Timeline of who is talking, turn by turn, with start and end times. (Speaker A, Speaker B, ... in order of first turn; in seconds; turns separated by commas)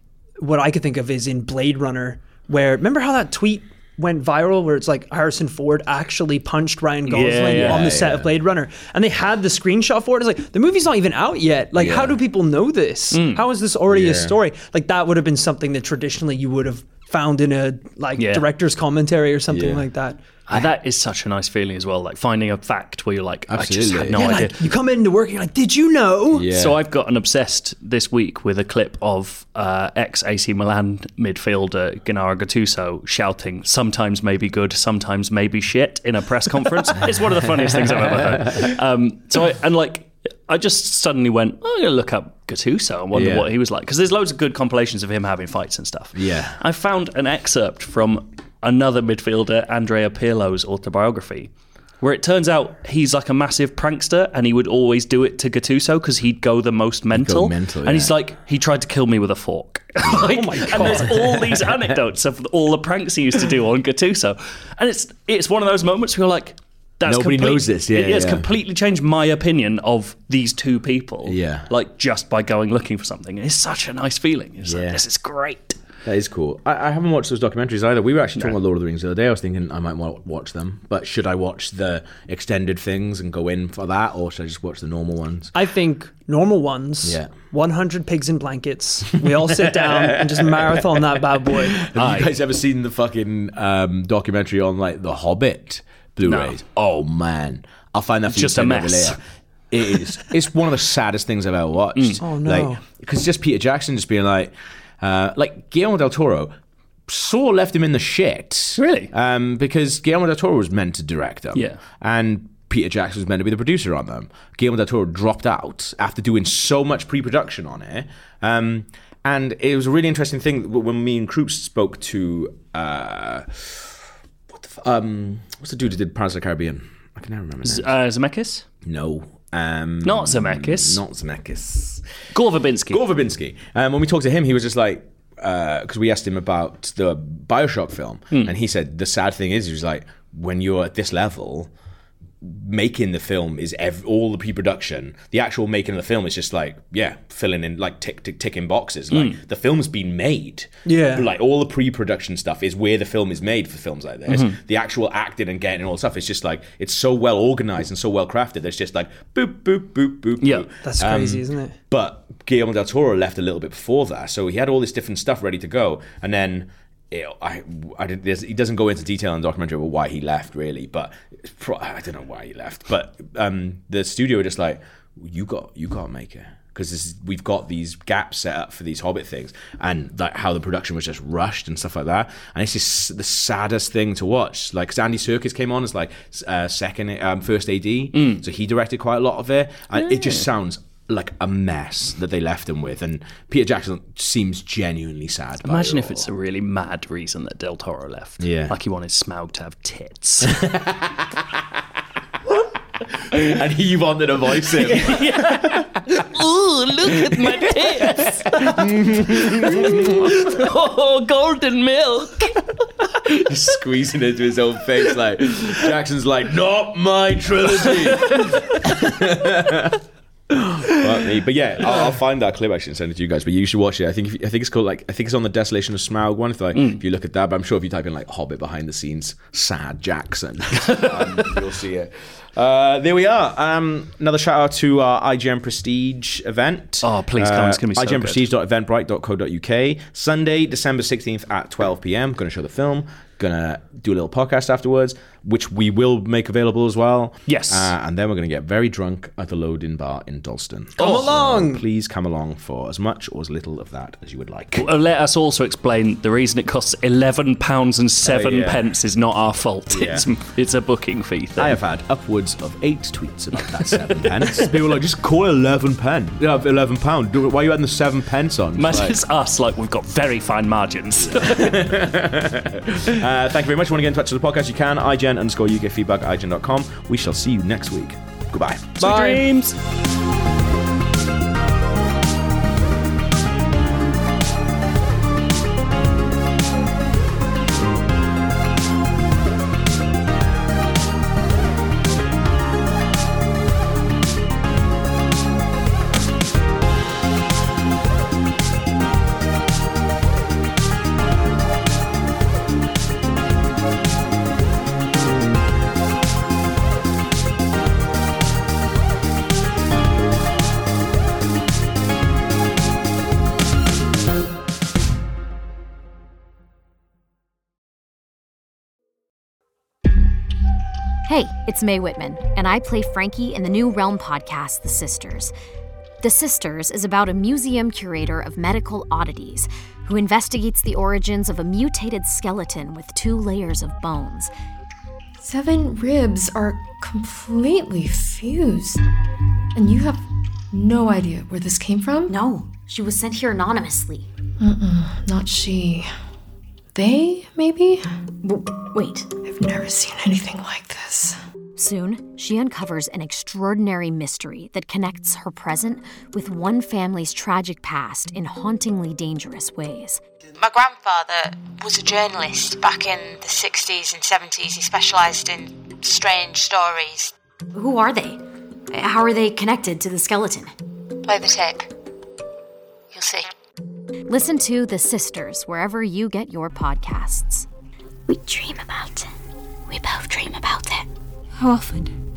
Speaker A: 0.4-20.2, Speaker B: 7.1-7.9, Speaker C: 7.5-8.3, Speaker C: 11.7-12.2, Speaker B: 13.1-13.4, Speaker C: 13.9-14.4, Speaker B: 18.1-18.5, Speaker C: 19.5-19.9, Speaker B: 20.5-24.6, Speaker C: 23.5-24.3, Speaker A: 24.1-26.5, Speaker C: 26.3-26.8, Speaker B: 26.5-75.8, Speaker C: 37.5-38.7, Speaker C: 43.1-43.5, Speaker C: 46.1-46.6, Speaker C: 57.1-58.1, Speaker C: 60.0-61.8, Speaker A: 60.1-61.3, Speaker C: 67.0-68.4, Speaker C: 71.2-71.7, Speaker C: 74.6-75.0, Speaker C: 76.0-85.5, Speaker A: 85.5-91.9, Speaker C: 87.0-87.3, Speaker C: 89.5-99.2, Speaker B: 91.9-92.3, Speaker B: 96.2-96.5, Speaker B: 98.3-99.2, Speaker C: 99.7-106.5, Speaker B: 102.0-102.2, Speaker A: 102.2-102.8, Speaker C: 107.1-124.0, Speaker B: 108.8-109.1, Speaker B: 111.5-111.8, Speaker C: 124.5-127.9, Speaker B: 127.6-128.6, Speaker C: 128.8-132.0, Speaker B: 130.0-131.0, Speaker B: 132.3-133.0, Speaker C: 132.9-141.7, Speaker C: 142.4-196.3, Speaker B: 149.1-149.4, Speaker A: 150.8-151.3, Speaker B: 154.3-154.6, Speaker B: 160.4-160.7, Speaker A: 160.8-161.7, Speaker B: 188.1-188.4, Speaker B: 195.6-200.6, Speaker C: 198.4-198.8, Speaker C: 200.4-201.4, Speaker C: 203.1-205.9, Speaker B: 204.8-212.6, Speaker C: 207.3-210.5, Speaker C: 213.2-254.9, Speaker B: 226.7-227.0, Speaker B: 230.9-231.5, Speaker B: 237.0-238.4, Speaker B: 247.5-247.9, Speaker A: 251.0-251.8, Speaker B: 254.8-261.8, Speaker C: 258.2-258.8, Speaker C: 259.9-260.3, Speaker C: 261.6-269.2, Speaker B: 268.8-272.0, Speaker C: 271.2-279.0, Speaker B: 279.0-279.7, Speaker A: 279.0-279.5, Speaker D: 321.2-325.5, Speaker D: 326.2-334.5, Speaker E: 335.4-339.0, Speaker E: 339.7-342.3, Speaker D: 342.3-344.3, Speaker E: 344.6-346.1, Speaker E: 346.9-348.0, Speaker D: 348.4-349.3, Speaker E: 349.4-351.4, Speaker D: 351.8-360.2, Speaker F: 360.6-367.3, Speaker D: 367.7-370.7, Speaker F: 371.2-371.9, Speaker F: 373.1-373.5, Speaker D: 374.3-377.6, Speaker D: 378.3-379.3, Speaker D: 379.9-381.1